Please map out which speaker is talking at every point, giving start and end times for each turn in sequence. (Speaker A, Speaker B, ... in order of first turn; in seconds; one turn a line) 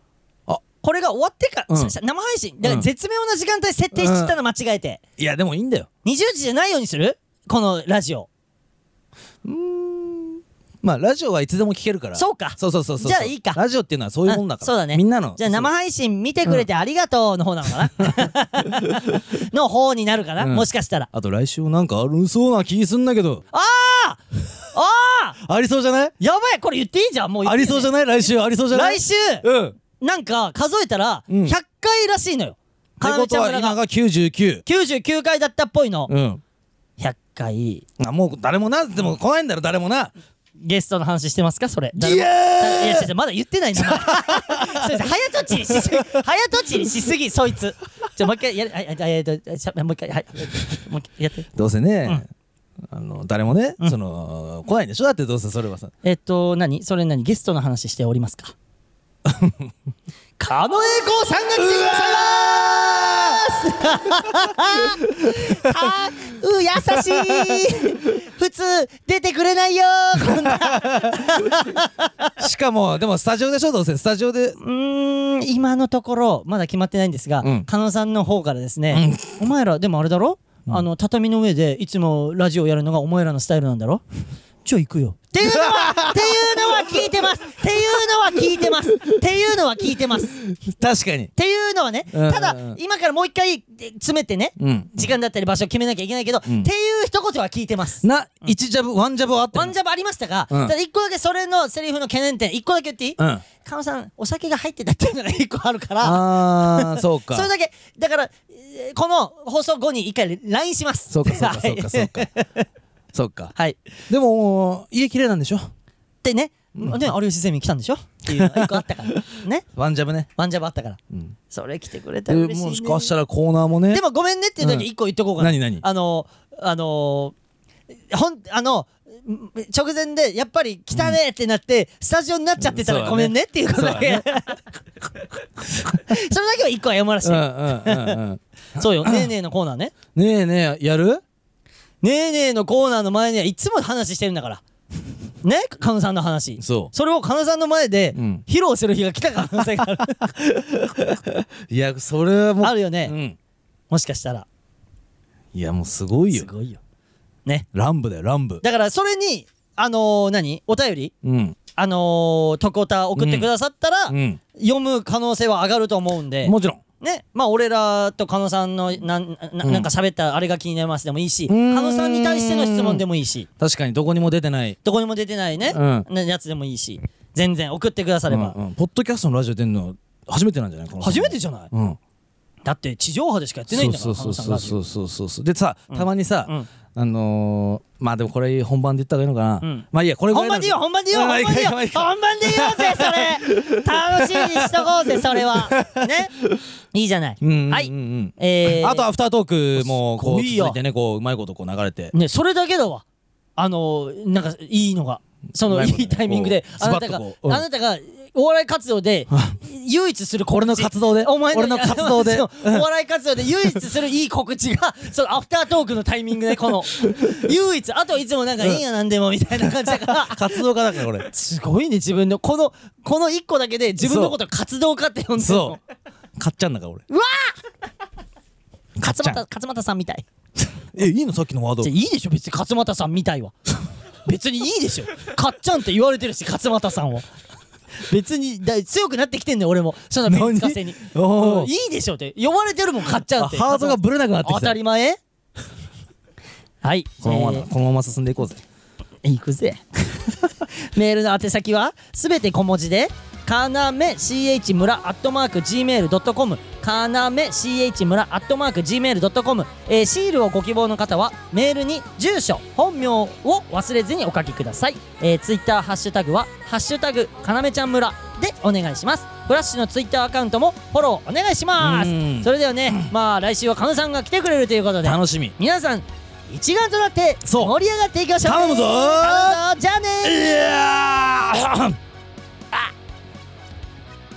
Speaker A: 0.8-5.0
Speaker B: 2.6-2.9
Speaker B: 3.9-4.4
Speaker B: 5.2-5.9
Speaker A: 6.0-8.3
Speaker B: 9.4-15.7
Speaker A: 12.2-13.6
Speaker A: 14.3-21.1
Speaker B: 18.7-19.2
Speaker B: 20.4-23.4
Speaker A: 23.5-24.2
Speaker A: 24.7-25.4
Speaker B: 25.4-26.1
Speaker A: 26.2-29.5
Speaker B: 27.4-29.8
Speaker A: 30.0-33.8
Speaker B: 31.3-31.6
Speaker B: 33.0-34.6
Speaker A: 34.6-36.1
Speaker B: 36.1-36.4
Speaker A: 37.0-37.9
Speaker B: 38.0-40.1
Speaker A: 40.6-51.5
Speaker B: 42.0-43.1
Speaker B: 43.8-44.9
Speaker B: 51.6-52.3
Speaker B: 52.9-55.9
Speaker A: 56.0-58.5
Speaker B: 59.2-59.7
Speaker A: 60.4-72.3
Speaker B: 61.6-63.4
Speaker B: 64.1-65.8
Speaker B: 66.9-67.7
Speaker B: 70.2-71.6
Speaker B: 72.4-74.6
Speaker A: 74.6-84.0
Speaker B: 77.4-77.7
Speaker B: 78.9-79.4
Speaker A: 84.6-90.4
Speaker B: 85.4-87.1
Speaker B: 90.5-91.3
Speaker A: 91.4-98.5
Speaker B: 92.1-92.8
Speaker B: 94.6-95.1
Speaker B: 98.0-99.7
Speaker A: 99.5-112.7
Speaker B: 103.2-103.4
Speaker B: 106.0-107.5
Speaker B: 111.1-112.3
Speaker B: 113.1-113.5
Speaker B: 114.1-115.7
Speaker A: 116.2-119.7
Speaker B: 116.8-117.0
Speaker B: 118.3-120.3
Speaker A: 120.4-121.0
Speaker A: 121.5-123.1
Speaker B: 122.3-124.0
Speaker A: 123.9-127.3
Speaker B: 124.6-125.8
Speaker A: 128.1-134.6
Speaker B: 130.9-131.2
Speaker B: 132.6-134.3
Speaker B: 135.7-136.1
Speaker A: 135.8-138.2
Speaker B: 137.2-139.3
Speaker A: 138.8-139.9
Speaker B: 140.2-141.2
Speaker A: 142.0-144.6
Speaker A: 145.4-150.9
Speaker B: 146.6-146.9
Speaker B: 148.2-148.4
Speaker B: 150.9-153.4
Speaker A: 152.6-153.2
Speaker A: 153.9-154.5
Speaker B: 155.5-156.5
Speaker A: 156.3-156.8
Speaker B: 157.7-158.6
Speaker A: 158.6-161.1
Speaker B: 161.2-161.6
Speaker A: 161.8-173.5
Speaker B: 163.2-163.5
Speaker B: 164.1-164.4
Speaker B: 166.4-166.8
Speaker B: 169.6-169.9
Speaker B: 171.5-173.0
Speaker B: 173.6-174.8
Speaker A: 174.8-178.6
Speaker B: 175.7-176.1
Speaker B: 178.3-182.0
Speaker A: 181.0-181.7
Speaker A: 182.7-184.8
Speaker B: 183.7-196.6
Speaker A: 185.9-186.7
Speaker A: 189.6-196.3
Speaker A: 196.9-199.1
Speaker B: 197.4-202.1
Speaker A: 199.8-200.8
Speaker A: 202.1-203.0
Speaker A: 203.6-225.8
Speaker B: 205.6-207.6
Speaker B: 210.5-212.8
Speaker B: 220.1-221.3
Speaker B: 224.0-224.4
Speaker B: 225.4-225.8
Speaker B: 226.4-227.0
Speaker A: 227.1-227.6
Speaker B: 229.0-229.4
Speaker A: 229.0-230.3
Speaker B: 230.9-231.9
Speaker A: 231.8-233.5
Speaker A: 234.2-237.3
Speaker A: 238.1-245.2
Speaker B: 240.3-241.7
Speaker B: 243.4-244.8
Speaker A: 246.8-247.7
Speaker B: 247.2-248.6
Speaker A: 249.2-280.4
Speaker B: 271.8-273.1
Speaker B: 275.0-275.6
Speaker B: 277.4-277.7
Speaker B: 278.4-279.6
Speaker B: 280.2-282.0